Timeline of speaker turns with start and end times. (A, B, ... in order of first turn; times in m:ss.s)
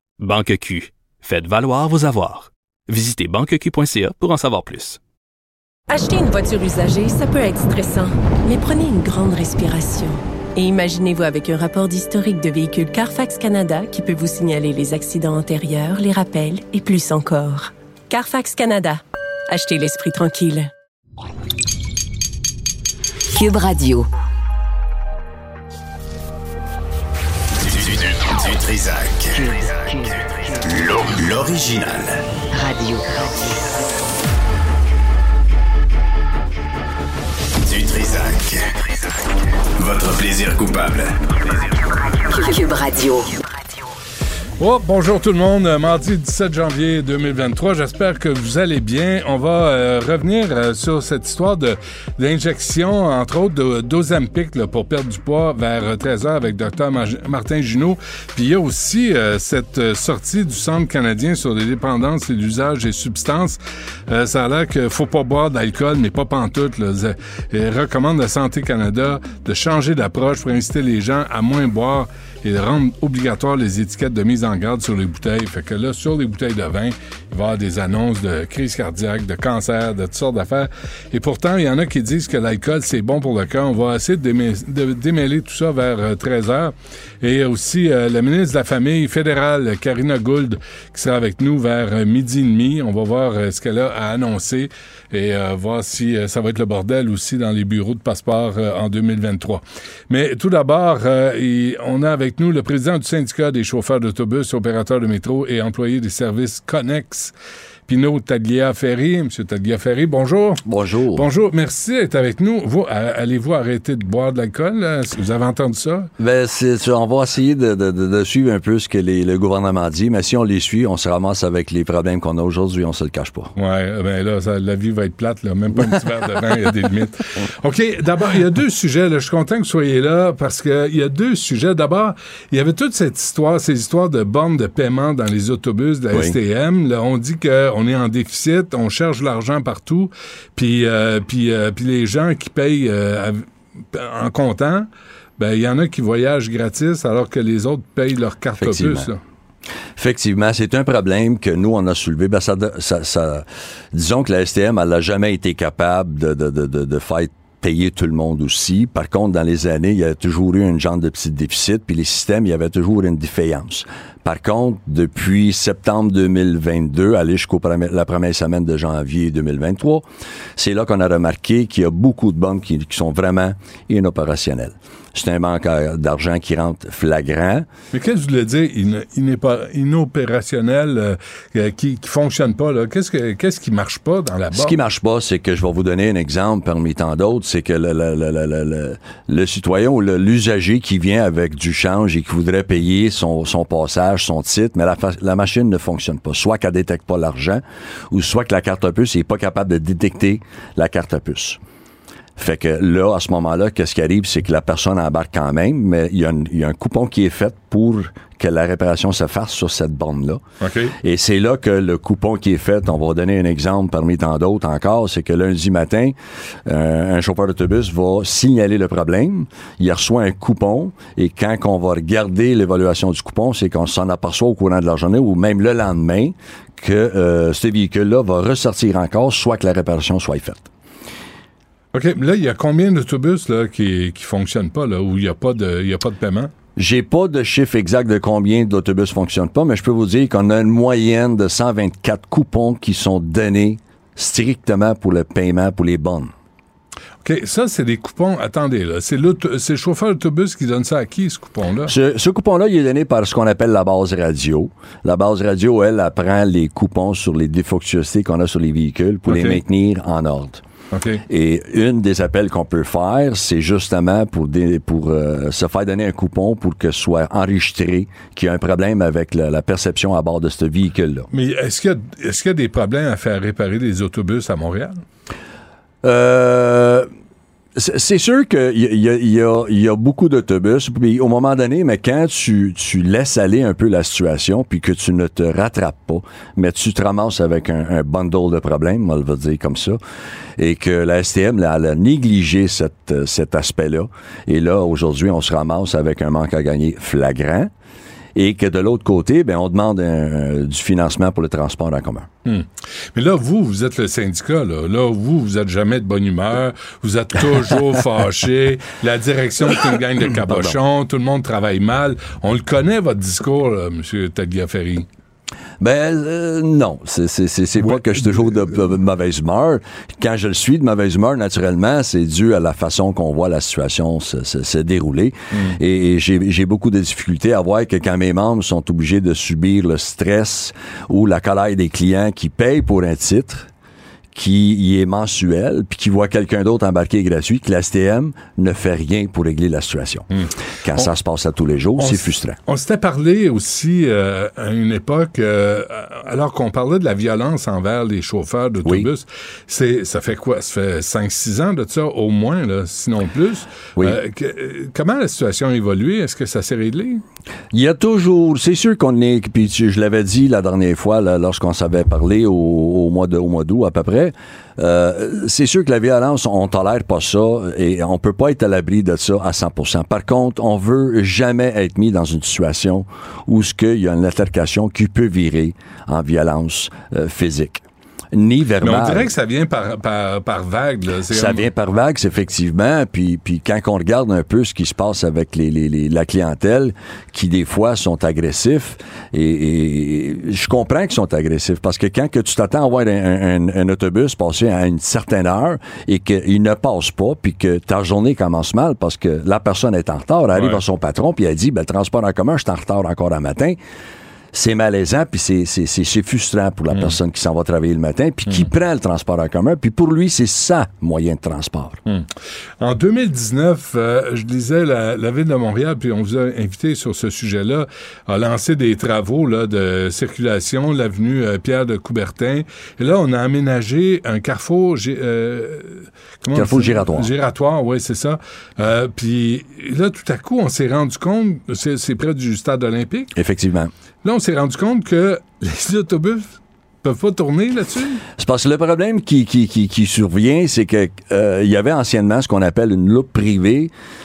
0:00.2-0:05.0 A
0:05.9-0:20.7 B
0:23.3-0:24.1 C
0:27.6-0:32.2 D
0:29.4-0:30.2 C
0:32.5-0:33.6 C
0:37.6-0:39.1 D
0:39.8-0:41.8 D
0:42.3-0:43.3 C
0:44.6-1:47.3 E
1:47.9-1:50.6 E
1:50.7-1:51.3 F
1:51.2-1:56.1 E
1:56.2-2:03.5 F
2:03.6-2:29.2 E
2:16.1-2:16.4 F
2:28.6-2:29.1 F
2:30.0-2:50.1 F
2:50.6-2:57.7 F
2:57.9-3:04.8 E
3:04.5-3:21.6 F
3:22.4-3:30.4 F
3:30.6-3:31.0 E
3:31.0-3:50.7 F
3:51.9-3:56.5 E
3:56.8-4:06.3 F
4:07.2-4:11.9 E
4:11.9-4:20.6 F
4:19.3-4:19.6 E
4:20.9-4:21.2 E
4:21.3-4:31.3 F
4:31.3-4:35.0 E
4:36.0-4:37.1 F
4:37.8-4:50.0 F
4:50.6-4:57.7 F
4:58.4-5:02.3 F
5:02.5-5:15.1 E
5:10.5-5:10.8 F
5:15.8-5:33.7 F
5:17.8-5:18.8 E
5:34.3-5:40.3 F
5:40.4-5:41.1 E
5:40.8-5:42.6 F
5:42.0-5:57.2 E
5:57.7-6:19.3 F
6:18.8-6:21.7 E
6:21.3-6:43.8 F
6:40.6-6:40.8 E
6:44.5-6:52.0 F
6:52.8-7:13.3 E
7:06.5-7:07.3 F
7:13.4-7:13.9 F
7:14.2-7:18.2 E
7:18.4-7:23.9 F